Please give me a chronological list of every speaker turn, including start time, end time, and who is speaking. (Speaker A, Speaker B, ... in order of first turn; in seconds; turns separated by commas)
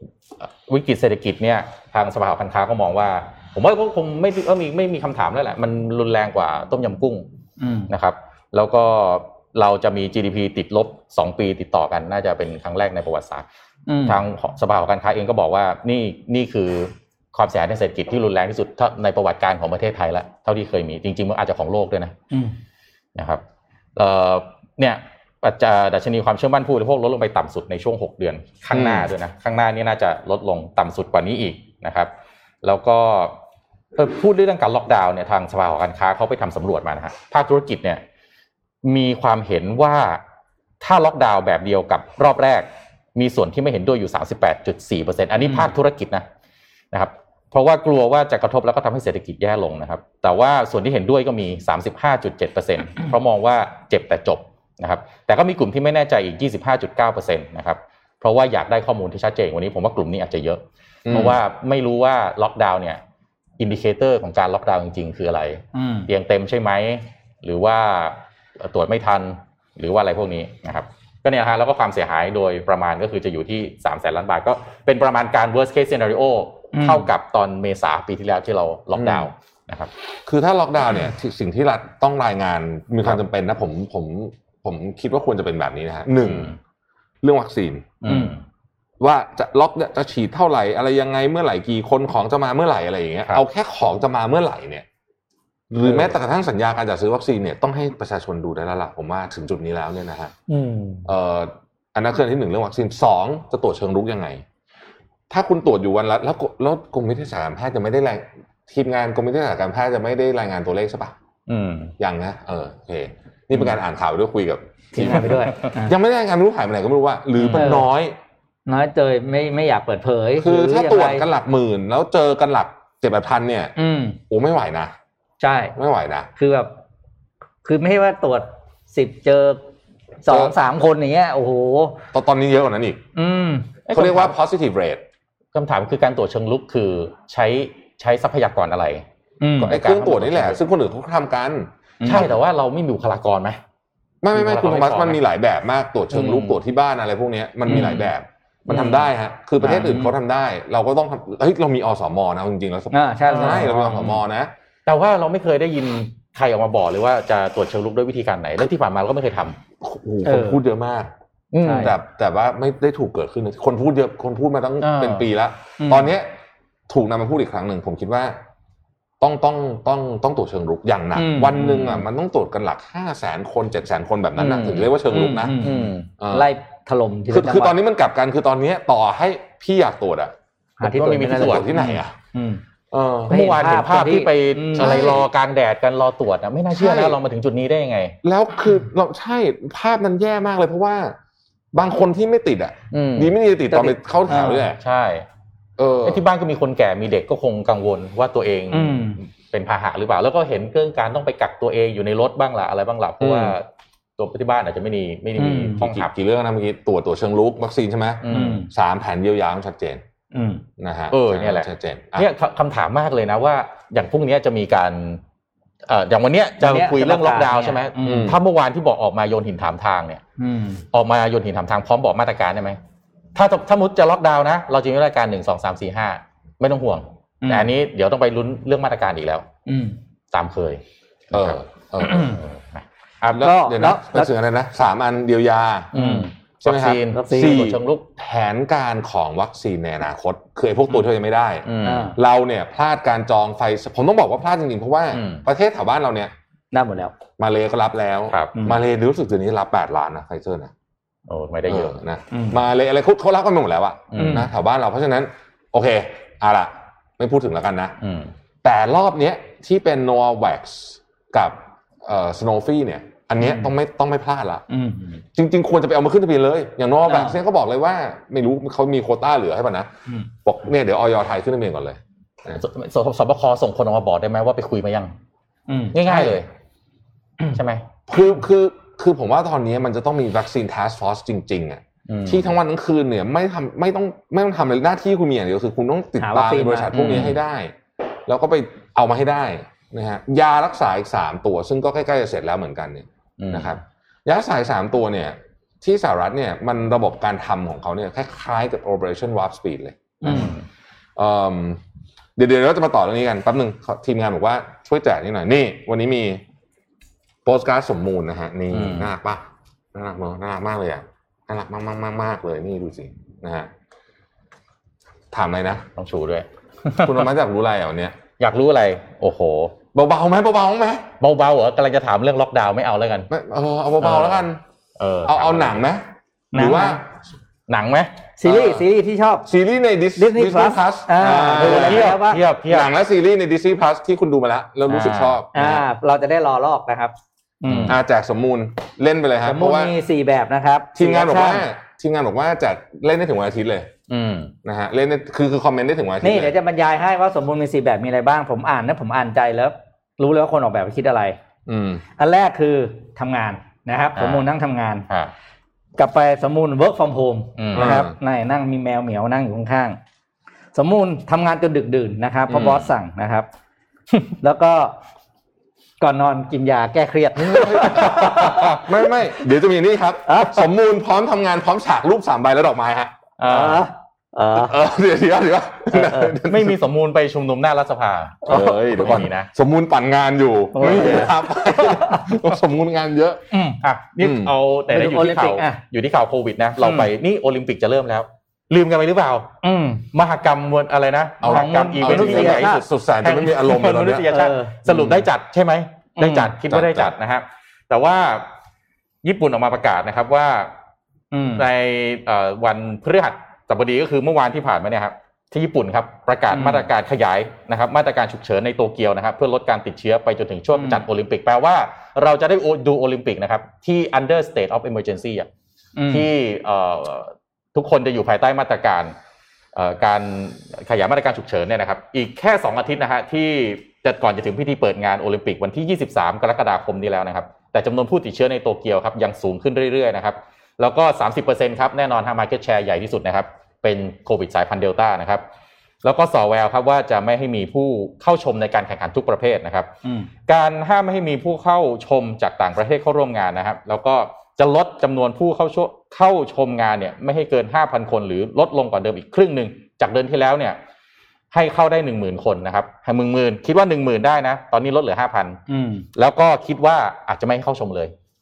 Speaker A: 0.4-7.3, Speaker B: 7.6-7.9, Speaker A: 7.9-13.4, Speaker B: 13.9-14.2, Speaker A: 14.1-22.1, Speaker A: 23.1-23.4, Speaker A: 23.9-32.1, Speaker C: 28.7-29.1, Speaker A: 32.6-33.4, Speaker A: 34.0-38.0, Speaker A: 38.8-40.2, Speaker A: 40.8-46.2, Speaker A: 46.9-63.0, Speaker C: 61.0-61.4, Speaker A: 63.6-79.9, Speaker B: 65.7-66.1, Speaker B: 76.7-77.1, Speaker C: 78.9-79.3, Speaker C: 80.2-86.5, Speaker A: 86.2-86.5, Speaker C: 87.2-88.2, Speaker A: 88.0-88.4, Speaker B: 88.1-88.3, Speaker C: 89.0-94.8, Speaker C: 95.7-100.3, Speaker A: 100.5-101.0, Speaker C: 101.0-104.4, Speaker C: 105.3-111.1, Speaker A: 111.5-111.9, Speaker C: 112.0-118.2, Speaker B: 114.9-115.9, Speaker A: 117.4-117.8, Speaker B: 117.5-117.8, Speaker B: 118.7-121.2, Speaker C: 120.4-123.7, Speaker B: 123.8-124.2, Speaker C: 124.3-124.9, Speaker B: 125.4-125.7, Speaker C: 125.8-126.3, Speaker B: 126.3-126.7, Speaker B: 127.6-129.6, Speaker B: 130.2-132.0, Speaker C: 130.3-130.5, Speaker C: 132.1-133.0, Speaker B: 133.2-133.8, Speaker A: 133.9-134.3, Speaker C: 133.9-135.0, Speaker A: 135.5-139.0, Speaker B: 139.4-139.7, Speaker A: 139.6-140.6, Speaker C: 139.7-142.3, Speaker B: 142.0-142.3, Speaker A: 142.0-143.6, Speaker C: 144.2-154.5, Speaker A: 144.3-145.2, Speaker A: 146.1-146.6, Speaker B: 147.7-148.0, Speaker A: 147.7-148.1, Speaker A: 148.7-149.1, Speaker B: 149.6-150.1, Speaker B: 152.9-154.2, Speaker A: 153.3-154.1, Speaker A: 154.8-159.6, Speaker C: 159.8-161.1, Speaker B: 160.2-160.6, Speaker A: 161.5-161.9, Speaker B: 161.6-161.9, Speaker C: 161.8-166.3, Speaker A: 164.8-165.3, Speaker B: 165.8-166.1, Speaker C: 166.9-168.4, Speaker C: 169.2-176.5, Speaker B: 171.1-172.0, Speaker A: 174.4-175.0, Speaker B: 175.1-177.8, Speaker A: 175.5-176.1, Speaker C: 177.3-180.3, Speaker B: 180.8-182.6, Speaker A: 180.8-181.7, Speaker C: 181.3-182.1, Speaker C: 182.9-183.4, Speaker B: 183.3-185.1, Speaker A: 183.3-188.2, Speaker C: 184.8-185.3, Speaker C: 186.7-187.2, Speaker C: 188.2-191.1, Speaker C: 191.7-194.8, Speaker A: 192.9-193.8, Speaker B: 193.7-194.7, Speaker A: 194.8-195.2, Speaker C: 195.8-196.2, Speaker A: 196.0-203.7, Speaker B: 198.7-199.2, Speaker C: 203.2-203.5, Speaker A: 204.2-206.1, Speaker B: 205.4-205.8, Speaker C: 205.8-210.0, Speaker A: 208.2-208.6, Speaker B: 208.3-208.7, Speaker B: 210.3-210.6, Speaker C: 210.8-212.3, Speaker A: 211.1-215.2, Speaker A: 215.9-220.2, Speaker B: 216.6-218.3, Speaker C: 218.0-218.4, Speaker B: 220.4-220.8, Speaker A: 220.9-222.8, Speaker A: 223.3-229.4, Speaker B: 227.4-227.7, Speaker B: 229.7-230.0, Speaker A: 230.3-233.5, Speaker C: 231.3-232.4, Speaker B: 232.0-232.4, Speaker C: 233.3-235.9, Speaker B: 233.4-234.3, Speaker A: 235.9-238.1, Speaker B: 235.9-236.3, Speaker C: 236.6-246.3, Speaker B: 237.1-237.7, Speaker A: 241.6-242.1, Speaker B: 241.8-242.2, Speaker A: 245.1-245.4, Speaker B: 246.7-247.1, Speaker C: 247.4-250.7, Speaker A: 248.3-248.5, Speaker A: 251.3-251.9, Speaker C: 251.7-257.9, Speaker B: 252.3-252.6, Speaker A: 254.1-254.5, Speaker B: 254.2-254.5, Speaker A: 258.0-258.3, Speaker C: 258.6-264.6, Speaker B: 263.4-263.7, Speaker B: 264.7-265.2, Speaker C: 265.3-269.9, Speaker B: 267.1-267.4, Speaker C: 270.4-272.6, Speaker A: 272.6-275.1, Speaker B: 275.7-276.4, Speaker A: 275.9-276.5, Speaker A: 277.5-277.8, Speaker C: 278.1-287.7, Speaker A: 282.1-282.5, Speaker B: 286.2-287.3, Speaker A: 286.9-287.4, Speaker C: 288.2-300.5, Speaker A: 293.4-293.7, Speaker B: 300.2-300.5, Speaker A: 300.2-300.6, Speaker C: 301.1-301.8, Speaker C: 302.4-306.4, Speaker C: 307.4-313.7, Speaker A: 308.7-309.1, Speaker C: 315.3-315.9, Speaker A: 315.9-317.3, Speaker C: 317.0-318.2, Speaker A: 318.4-319.7, Speaker C: 319.9-321.1, Speaker A: 321.2-323.3, Speaker C: 323.3-324.6, Speaker A: 324.0-324.5, Speaker A: 325.0-325.8, Speaker C: 325.2-327.1, Speaker B: 326.5-327.0, Speaker A: 327.7-328.1, Speaker B: 328.4-329.5, Speaker C: 328.4-328.9, Speaker C: 329.4-335.8, Speaker B: 330.1-332.4, Speaker A: 331.5-332.9, Speaker A: 334.9-335.4, Speaker B: 335.5-338.0, Speaker A: 337.7-337.9, Speaker C: 337.9-339.9, Speaker B: 339.4-341.6, Speaker C: 340.9-343.9, Speaker A: 344.1-344.5, Speaker C: 344.6-346.5, Speaker B: 346.2-351.4, Speaker C: 351.7-352.0, Speaker B: 352.2-355.1, Speaker A: 354.1-354.4, Speaker B: 356.0-360.0, Speaker A: 357.6-357.9, Speaker C: 357.7-358.1, Speaker B: 360.7-363.5, Speaker A: 362.5-362.9, Speaker B: 364.2-365.0, Speaker B: 366.0-369.0, Speaker C: 367.4-373.1, Speaker B: 370.2-370.6, Speaker A: 373.4-373.9, Speaker B: 373.4-374.8, Speaker C: 374.5-376.8, Speaker B: 375.9-376.3, Speaker A: 376.4-379.5, Speaker C: 378.4-383.4, Speaker B: 378.5-378.8, Speaker B: 380.7-382.2, Speaker A: 380.9-381.2, Speaker B: 383.5-383.8, Speaker A: 383.8-389.5, Speaker C: 384.2-384.5, Speaker B: 384.9-385.8, Speaker B: 389.6-390.1, Speaker A: 390.1-398.5, Speaker C: 391.4-394.3, Speaker B: 391.4-392.8, Speaker B: 394.3-394.8, Speaker C: 394.9-395.3, Speaker B: 396.2-396.5, Speaker C: 396.6-397.1, Speaker A: 399.2-400.7, Speaker B: 401.3-401.6, Speaker A: 401.6-415.5, Speaker B: 406.5-406.9, Speaker B: 410.7-411.0, Speaker B: 416.0-416.3, Speaker A: 416.1-419.1, Speaker A: 419.7-435.4, Speaker A: 436.0-439.9, Speaker B: 440.0-440.3, Speaker A: 440.5-450.8, Speaker A: 451.5-455.6, Speaker B: 455.7-456.1, Speaker A: 456.1-458.1